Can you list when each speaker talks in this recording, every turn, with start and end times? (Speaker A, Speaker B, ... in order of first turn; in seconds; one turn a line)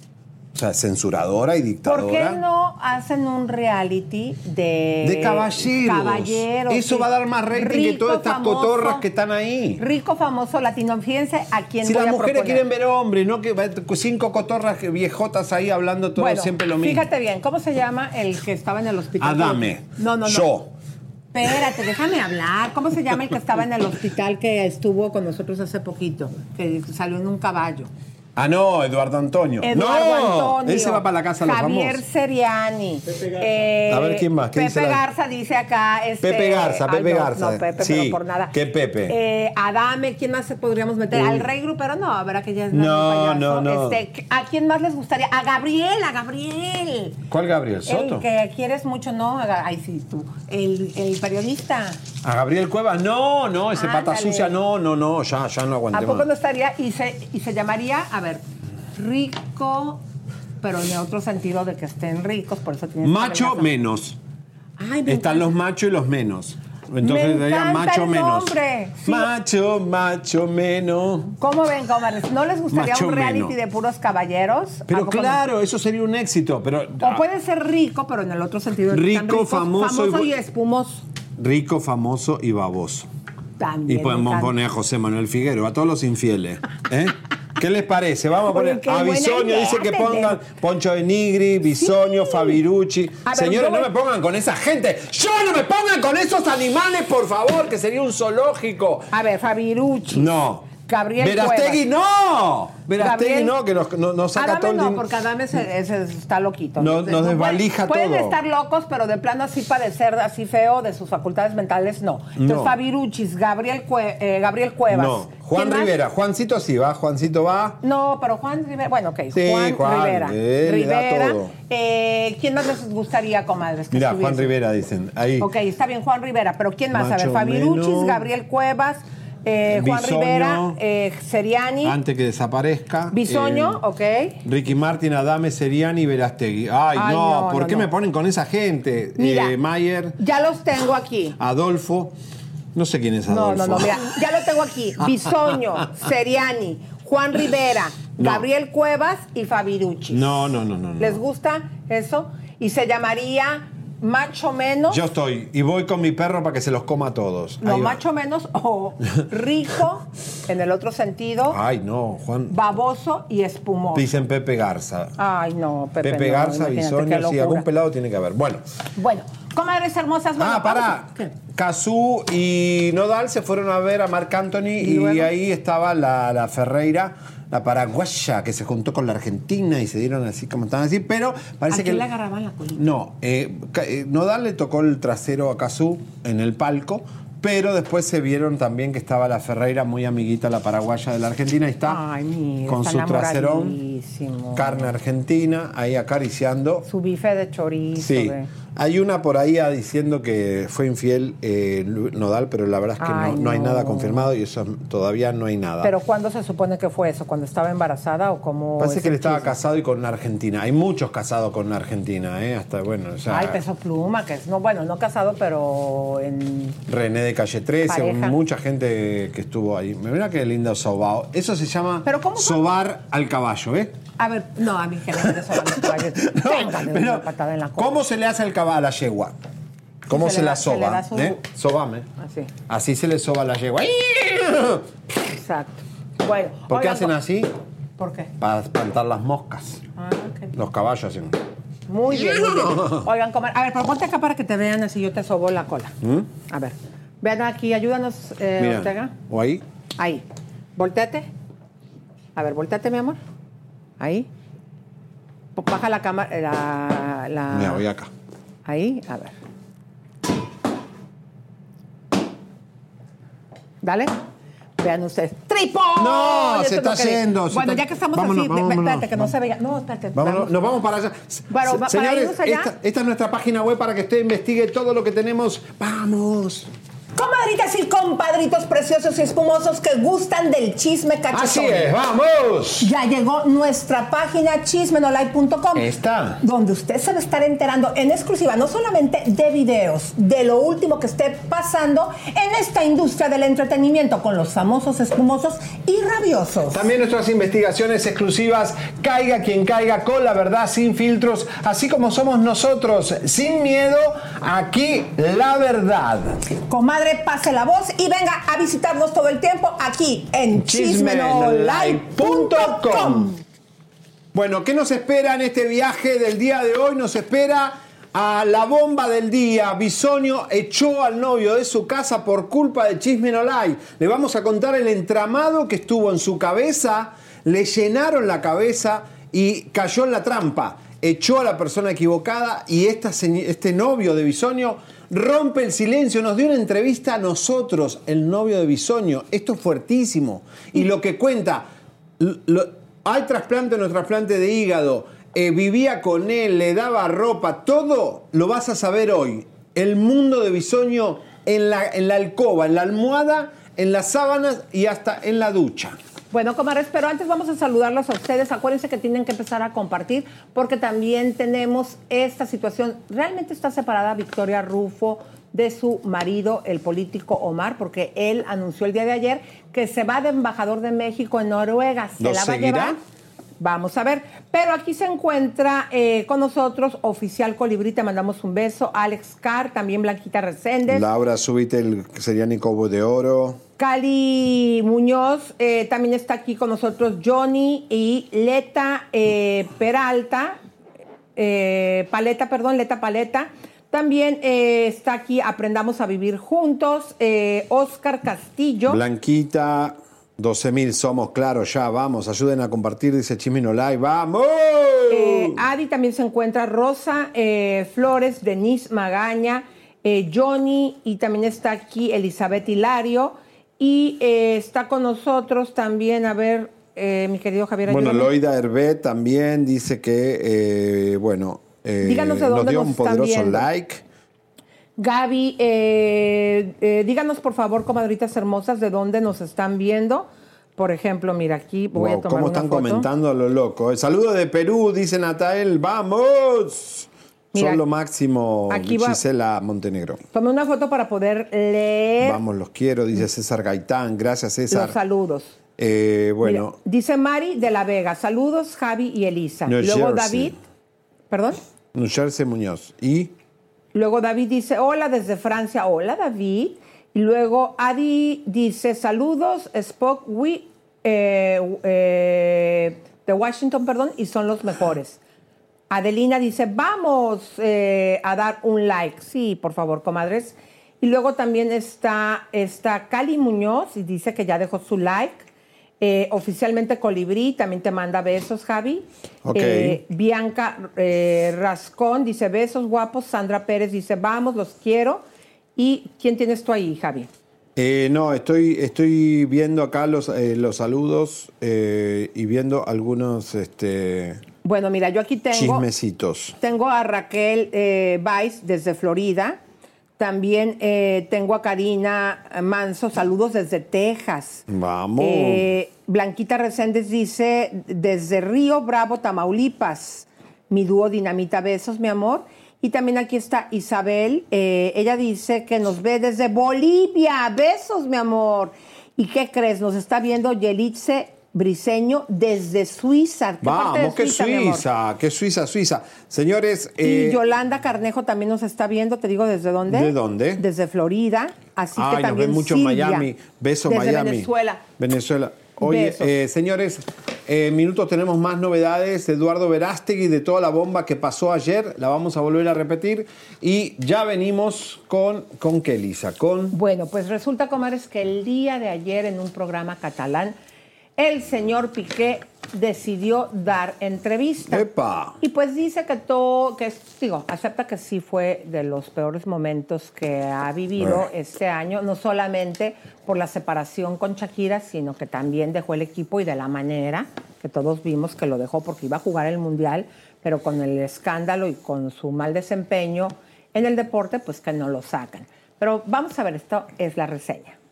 Speaker A: 0.5-2.4
Speaker B: 1.8-9.0
Speaker A: 5.0-9.8
Speaker B: 9.8-12.6
Speaker A: 11.8-17.1
Speaker B: 16.1-20.5
Speaker A: 19.2-20.7
Speaker B: 21.3-27.9
Speaker A: 28.4-32.0
Speaker B: 29.6-38.5
Speaker A: 33.9-35.0
Speaker A: 36.2-39.1
Speaker B: 39.1-47.2
Speaker A: 41.1-41.5
Speaker A: 42.7-44.0
Speaker A: 47.3-48.2
Speaker B: 47.9-52.0
Speaker A: 52.2-56.3
Speaker B: 53.7-54.5
Speaker B: 55.9-58.4
Speaker B: 58.9-60.0
Speaker B: 60.6-63.7
Speaker A: 63.0-64.2
Speaker B: 64.8-65.5
Speaker A: 65.0-71.3
Speaker B: 67.0-69.3
Speaker B: 71.4-75.4
Speaker A: 72.7-73.5
Speaker A: 74.9-77.2
Speaker B: 77.0-81.0
Speaker A: 78.9-80.3
Speaker A: 81.4-83.1
Speaker B: 83.6-84.5
Speaker A: 83.9-99.1
Speaker B: 88.5-90.4
Speaker B: 91.7-92.6
Speaker B: 93.2-93.9
Speaker B: 99.1-100.3
Speaker A: 100.1-105.0
Speaker B: 100.8-101.8
Speaker B: 103.0-103.5
Speaker B: 104.3-115.9
Speaker A: 106.8-108.4
Speaker A: 112.3-112.8
Speaker A: 114.9-117.8
Speaker B: 117.8-124.5
Speaker A: 119.3-121.5
Speaker A: 123.9-125.5
Speaker B: 125.4-132.0
Speaker A: 126.9-128.2
Speaker A: 129.7-130.8
Speaker A: 131.8-133.8
Speaker B: 133.1-134.4
Speaker A: 134.4-140.2
Speaker B: 136.9-137.9
Speaker B: 139.2-139.6
Speaker B: 140.2-141.4
Speaker A: 141.4-142.1
Speaker A: 142.7-144.1
Speaker B: 143.3-155.0
Speaker A: 145.2-145.5
Speaker A: 148.2-148.4
Speaker A: 150.1-151.2
Speaker A: 154.9-158.0
Speaker B: 157.6-161.6
Speaker A: 161.5-162.6
Speaker B: 162.5-164.1
Speaker A: 163.9-165.2
Speaker B: 165.2-167.7
Speaker A: 166.0-168.6
Speaker B: 169.0-171.3
Speaker A: 170.4-182.1
Speaker B: 174.8-175.3
Speaker B: 181.7-182.8
Speaker A: 182.7-192.0
Speaker B: 191.9-194.9
Speaker A: 192.7-193.8
Speaker A: 194.5-196.8
Speaker B: 196.8-198.5
Speaker A: 197.9-205.9
Speaker B: 203.0-204.3
Speaker B: 205.8-209.6
Speaker A: 208.8-213.6
Speaker B: 213.3-216.8
Speaker A: 216.9-223.9
Speaker B: 217.8-218.4
Speaker B: 222.0-222.6
Speaker B: 224.2-228.0
Speaker A: 225.2-229.3
Speaker A: 230.1-232.1
Speaker B: 230.1-231.4
Speaker B: 232.2-232.5
Speaker A: 232.7-234.9
Speaker B: 235.3-237.1
Speaker A: 236.7-237.5
Speaker B: 238.0-238.3
Speaker A: 238.4-239.8
Speaker B: 239.9-240.5
Speaker A: 240.5-241.4
Speaker B: 241.9-245.9
Speaker A: 242.1-243.1
Speaker A: 246.0-246.3
Speaker B: 246.5-249.1
Speaker A: 248.6-249.6
Speaker B: 250.0-250.2
Speaker B: 250.8-251.3
Speaker B: 252.3-253.2
Speaker B: 254.0-254.3
Speaker B: 255.6-257.9
Speaker A: 257.5-258.1
Speaker B: 258.6-259.3
Speaker B: 263.8-264.1
Speaker B: 264.8-270.5
Speaker A: 266.0-269.3
Speaker A: 270.1-276.7
Speaker B: 271.5-272.7
Speaker B: 277.1-281.9
Speaker A: 281.3-282.9
Speaker B: 282.8-296.9
Speaker A: 285.7-286.4
Speaker A: 296.7-306.4
Speaker B: 306.6-313.4
Speaker A: 310.5-313.3
Speaker A: 314.3-341.7
Speaker A: 342.2-356.0
Speaker B: 356.3-373.0
Speaker A: 372.2-373.0
Speaker B: 373.6-381.1
Speaker A: 380.9-383.6
Speaker B: 383.8-390.6
Speaker B: 391.4-399.0
Speaker A: 398.9-405.6
Speaker B: 405.1-418.3
Speaker A: 417.9-424.0
Speaker B: 422.0-423.6
Speaker B: 425.0-433.1
Speaker A: 431.9-440.2
Speaker B: 437.5-437.8
Speaker B: 438.7-439.2
Speaker B: 440.3-442.4
Speaker A: 442.2-445.0
Speaker B: 444.7-445.6
Speaker A: 445.8-446.8
Speaker B: 446.4-450.6
Speaker A: 449.7-450.6
Speaker B: 451.3-451.6
Speaker A: 451.9-453.3
Speaker B: 453.9-465.2
Speaker B: 465.9-475.4
Speaker B: 476.0-485.2
Speaker A: 479.4-480.0
Speaker B: 485.8-487.3
Speaker A: 487.8-494.4
Speaker B: 494.6-495.9
Speaker A: 495.5-496.6
Speaker B: 496.6-499.6
Speaker B: 500.2-504.6
Speaker A: 504.7-505.7
Speaker B: 505.2-524.9
Speaker A: 523.6-527.4
Speaker B: 527.0-533.3
Speaker A: 529.9-530.6
Speaker A: 531.9-546.8
Speaker B: 533.9-534.8
Speaker B: 535.8-536.3
Speaker B: 546.7-550.5
Speaker B: 551.2-554.9
Speaker A: 554.7-555.4
Speaker B: 555.4-577.8
Speaker A: 561.0-561.2